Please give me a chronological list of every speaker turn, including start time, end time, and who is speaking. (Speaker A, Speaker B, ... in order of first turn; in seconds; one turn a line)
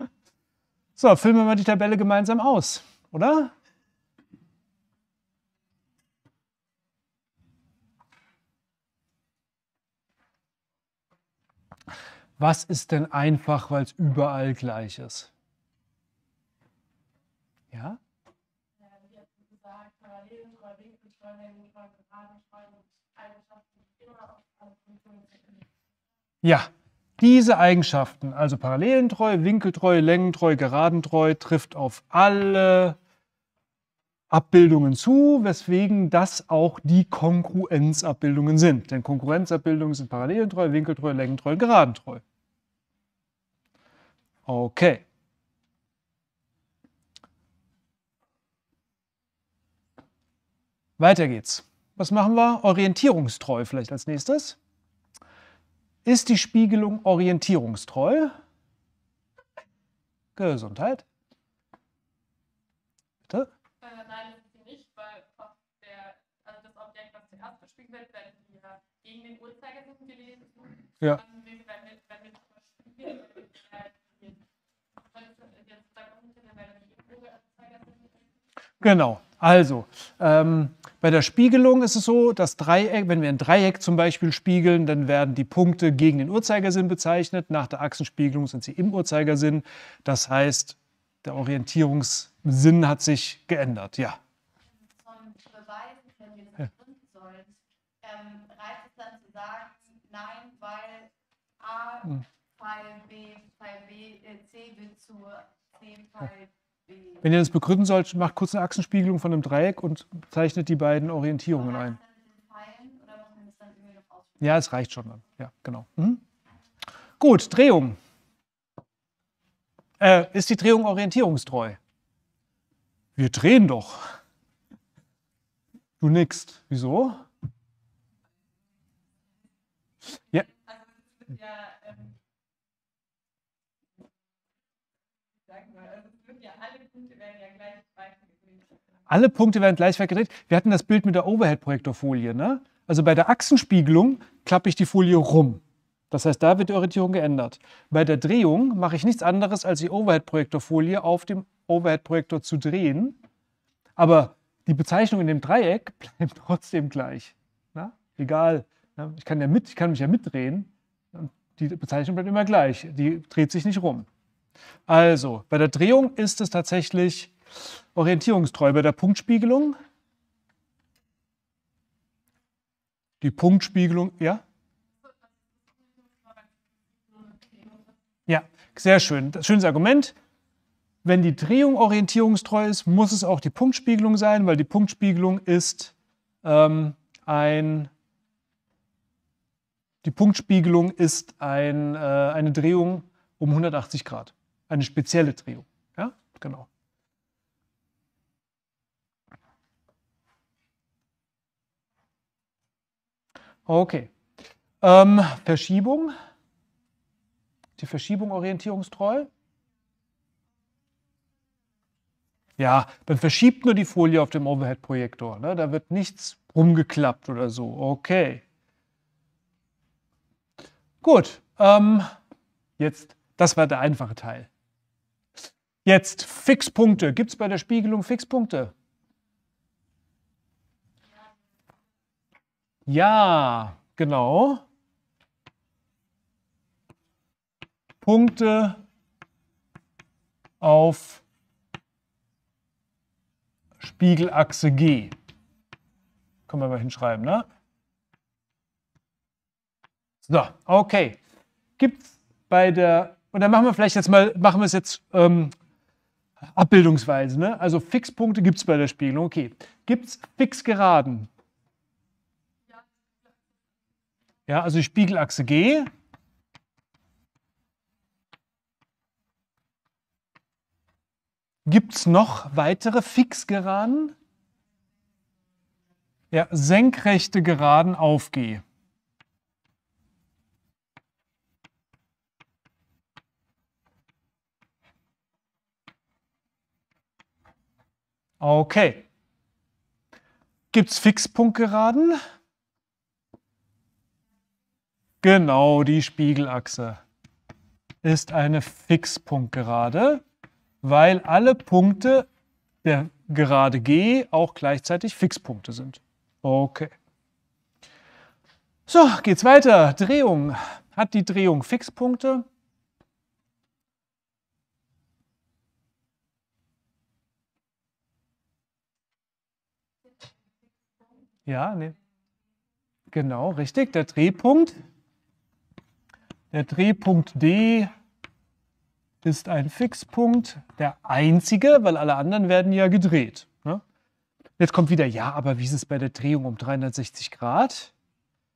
Speaker A: 1.0-3.5
Speaker A: 12.4-15.3
Speaker A: 17.7-18.0
Speaker B: 18.9-25.7
Speaker C: 19.0-21.7
Speaker C: 22.3-24.1
Speaker A: 26.4-33.0
Speaker A: 34.3-42.2
Speaker A: 44.5-45.0
Speaker A: 51.0-54.6
Speaker A: 56.0-58.3
Speaker A: 60.4-61.0
Speaker C: 63.8-74.4
Speaker B: 68.6-68.9
Speaker B: 72.9-73.5
Speaker C: 75.2-77.7
Speaker B: 77.1-78.2
Speaker A: 78.8-94.2
Speaker B: 94.8-107.2
Speaker A: 107.2-112.0
Speaker B: 111.6-114.5
Speaker A: 114.4-116.2
Speaker A: 117.2-118.0
Speaker A: 120.0-121.8
Speaker A: 123.2-124.0
Speaker A: 126.0-127.2
Speaker B: 130.3-132.2
Speaker B: 135.4-138.8
Speaker A: 139.1-153.2
Speaker A: 154.0-164.1
Speaker A: 164.9-167.3
Speaker A: 167.9-169.8
Speaker A: 173.2-174.4
Speaker C: 176.1-176.5
Speaker B: 177.1-177.6
Speaker C: 177.2-177.9
Speaker A: 178.3-180.2
Speaker A: 181.0-187.9
Speaker A: 190.0-196.7
Speaker A: 203.7-204.2
Speaker A: 204.8-206.1
Speaker A: 207.8-209.3
Speaker A: 212.6-218.4
Speaker A: 221.0-222.1
Speaker A: 222.8-224.5
Speaker A: 225.8-228.7
Speaker A: 232.9-234.6
Speaker A: 238.0-238.8
Speaker A: 240.6-241.2
Speaker A: 243.8-245.2
Speaker A: 246.5-247.5
Speaker A: 250.2-251.2
Speaker A: 251.8-255.5
Speaker A: 256.6-261.3
Speaker A: 264.5-265.9
Speaker A: 271.6-274.1
Speaker A: 276.3-278.6
Speaker A: 288.4-289.1
Speaker A: 290.7-292.2
Speaker A: 295.2-297.0
Speaker A: 298.0-300.2
Speaker A: 300.8-302.3
Speaker A: 302.8-306.9
Speaker A: 308.9-312.5
Speaker A: 321.5-322.0
Speaker A: 323.1-324.8
Speaker A: 326.5-327.9
Speaker A: 329.2-333.8
Speaker A: 334.6-337.9